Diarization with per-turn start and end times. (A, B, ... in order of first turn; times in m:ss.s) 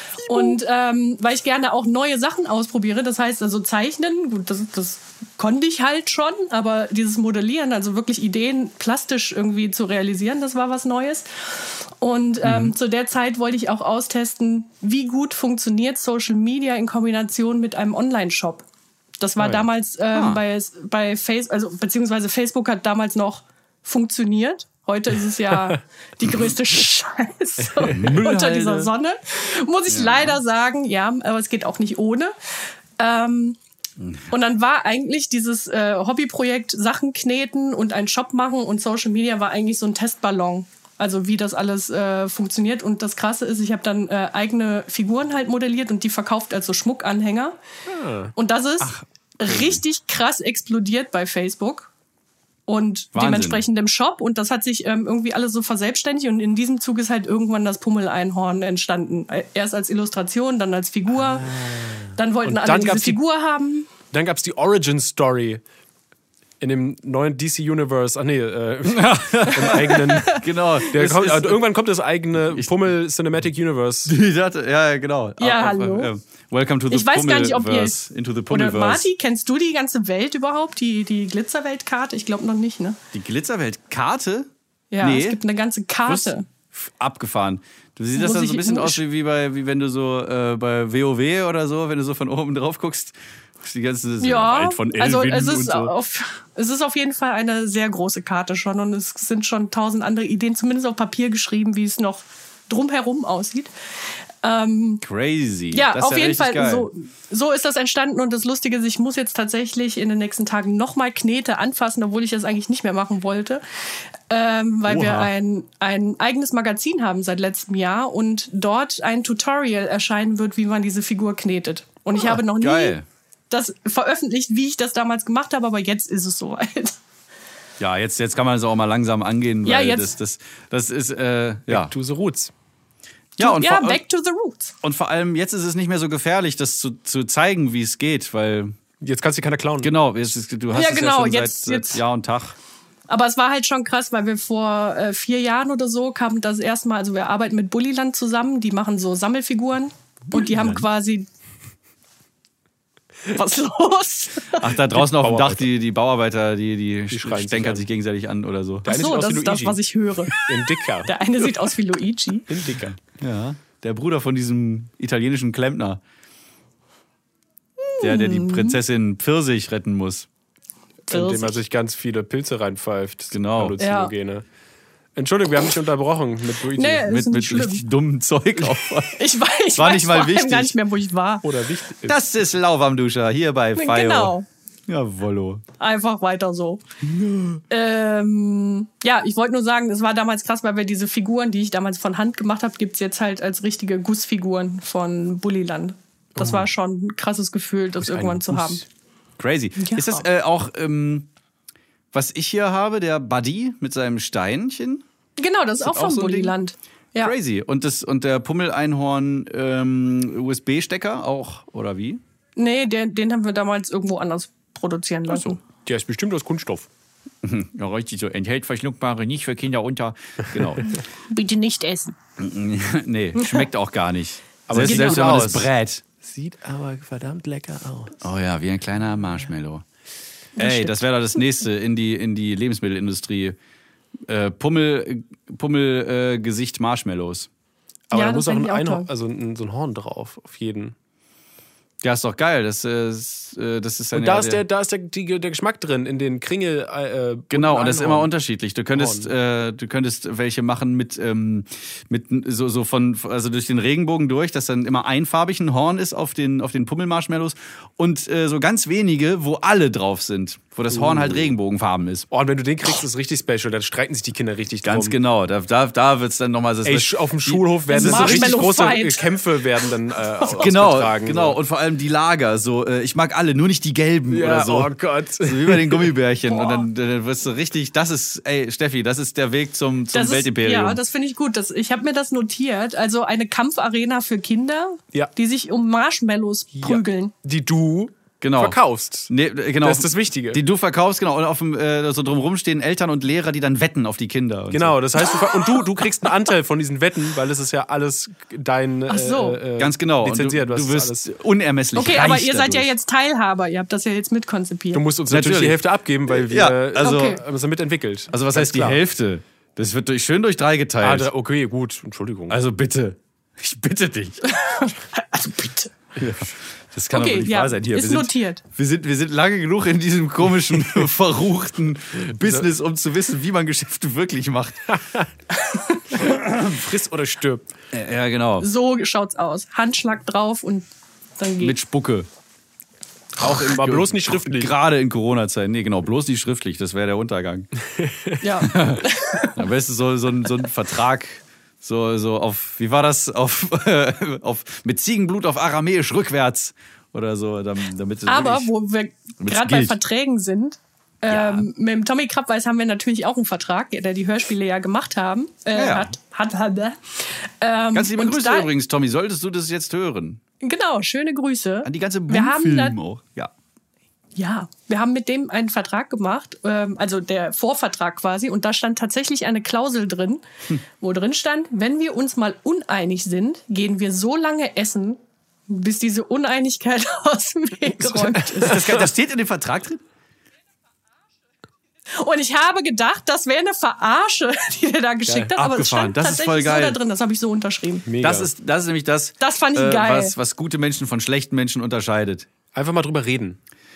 0:00.2-0:18.6 A
0:00.3-0:00.6 B
0:12.4-0:12.7 B
0:19.2-0:32.3 A
0:19.4-0:19.6 C
0:20.1-0:20.4 B
0:27.9-0:28.9 B
0:29.9-0:30.4 B
0:33.0-0:33.6 A
0:34.0-0:34.3 B
0:34.3-0:47.6 A
0:47.8-0:48.3 C
0:48.3-0:51.9 A
0:48.8-0:49.8 B
0:52.7-1:03.9 A
0:53.1-0:53.6 B
1:01.2-1:03.2 C
1:04.1-1:05.6 C
1:06.6-1:10.4 C
1:08.8-1:11.7 B
1:10.1-1:10.4 A
1:10.9-1:14.1 C
1:14.1-1:19.0 B
1:15.4-1:16.1 A
1:16.9-1:18.0 A
1:18.5-1:23.0 A
1:23.1-1:24.5 B
1:24.9-1:26.4 A
1:25.0-1:25.4 B
1:26.0-1:35.9 B
1:28.1-1:29.0 A
1:34.2-1:43.7 A
1:44.4-1:45.0 A
1:45.0-1:46.9 B
1:45.7-2:03.0 A
1:54.9-1:55.3 B
2:02.2-2:03.0 B
2:03.5-2:07.0 A
2:07.8-2:11.9 B
2:09.6-2:10.1 A
2:11.7-2:12.5 C
2:13.4-2:14.0 B
2:13.4-2:14.7 A
2:14.8-2:18.8 B
2:19.0-2:19.9 C
2:19.8-2:22.6 B
2:20.7-2:22.0 A
2:23.1-2:31.3 A
2:30.3-2:30.8 B
2:33.3-2:34.7 A
2:34.6-2:39.0 B
2:35.0-2:35.6 C
2:37.1-2:37.9 C
2:38.8-2:41.2 C
2:38.9-2:42.5 A
2:42.5-2:43.0 C
2:43.1-2:46.0 B
2:47.8-2:48.8 A
2:48.0-2:50.3 B
2:51.1-2:54.4 C
2:51.1-2:51.5 A
2:53.3-2:53.8 B
2:53.8-2:54.1 A
2:55.1-2:57.1 C
2:56.7-2:57.8 A
2:57.0-3:00.8 B
2:59.1-3:01.5 A
3:01.4-3:02.2 C
3:02.0-3:04.3 B
3:03.8-3:04.4 A
3:04.9-3:05.6 B
3:05.8-3:06.8 A
3:07.0-3:07.6 B
3:07.7-3:18.8 A
3:16.4-3:16.7 C
3:18.0-3:18.8 C
3:19.4-3:21.3 B
3:19.8-3:20.2 A
3:22.1-3:25.0 B
3:25.4-3:27.3 A
3:25.8-3:26.6 B
3:27.2-3:32.2 B
3:32.6-3:35.6 A
3:35.3-3:35.6 B
3:35.8-3:36.9 C
3:37.4-3:41.0 B
3:41.3-3:42.2 A
3:42.4-3:46.0 B
3:43.4-3:43.6 A
3:44.7-3:48.2 C
3:44.8-3:45.4 A
3:48.2-3:49.8 B
3:50.6-3:51.0 A
3:50.6-3:53.6 B
3:54.3-3:57.5 B
3:58.1-4:00.9 C
3:58.1-3:59.1 A
4:02.0-4:04.6 B
4:04.1-4:08.3 C
4:07.5-4:22.3 B
4:08.9-4:09.3 C
4:20.9-4:21.5 C
4:22.3-4:25.2 C
4:24.8-4:29.0 B
4:26.8-4:31.6 C
4:27.9-4:29.9 A
4:30.4-4:30.6 A
4:30.6-4:41.0 B
4:34.3-4:36.1 C
4:36.5-4:36.8 A
4:40.1-4:47.3 A
4:46.8-4:49.3 C
4:48.4-4:48.8 B
4:49.3-4:55.0 B
4:49.8-4:50.6 C
4:54.7-5:01.3 C
4:59.1-4:59.6 A
4:59.8-5:02.9 B
5:01.9-5:05.0 A
5:04.9-5:09.0 C
5:05.3-5:07.4 B
5:07.0-5:07.4 A
5:08.3-5:11.3 B
5:11.0-5:12.6 C
5:12.5-5:14.5 B
5:14.4-5:15.9 A
5:16.2-5:25.0 B
5:17.1-5:18.6 A
5:22.4-5:22.6 C
5:24.9-5:25.2 C
5:25.5-5:26.2 A
5:26.1-5:27.7 C
5:26.2-5:26.8 B
5:27.9-5:28.7 B
5:28.6-5:30.9 A
5:31.4-5:31.8 A
5:31.6-5:32.3 B
5:33.4-5:34.7 C
5:33.4-5:37.7 B
5:38.0-5:38.4 C
5:38.4-5:39.6 A
5:38.6-5:48.7 B
5:48.2-5:58.7 A
5:49.4-5:50.0 B
5:51.3-5:51.7 B
5:55.7-5:56.1 B
5:57.9-6:00.4 B
6:00.6-6:03.0 A
6:01.8-6:03.5 B
6:04.4-6:10.4 A
6:11.0-6:19.0 A
6:18.3-6:20.0 B
6:18.3-6:19.0 C
6:22.2-6:28.1 A
6:25.6-6:27.0 B
6:28.0-6:28.5 C
6:28.2-6:32.5 B
6:29.4-6:30.3 A
6:32.7-6:33.6 C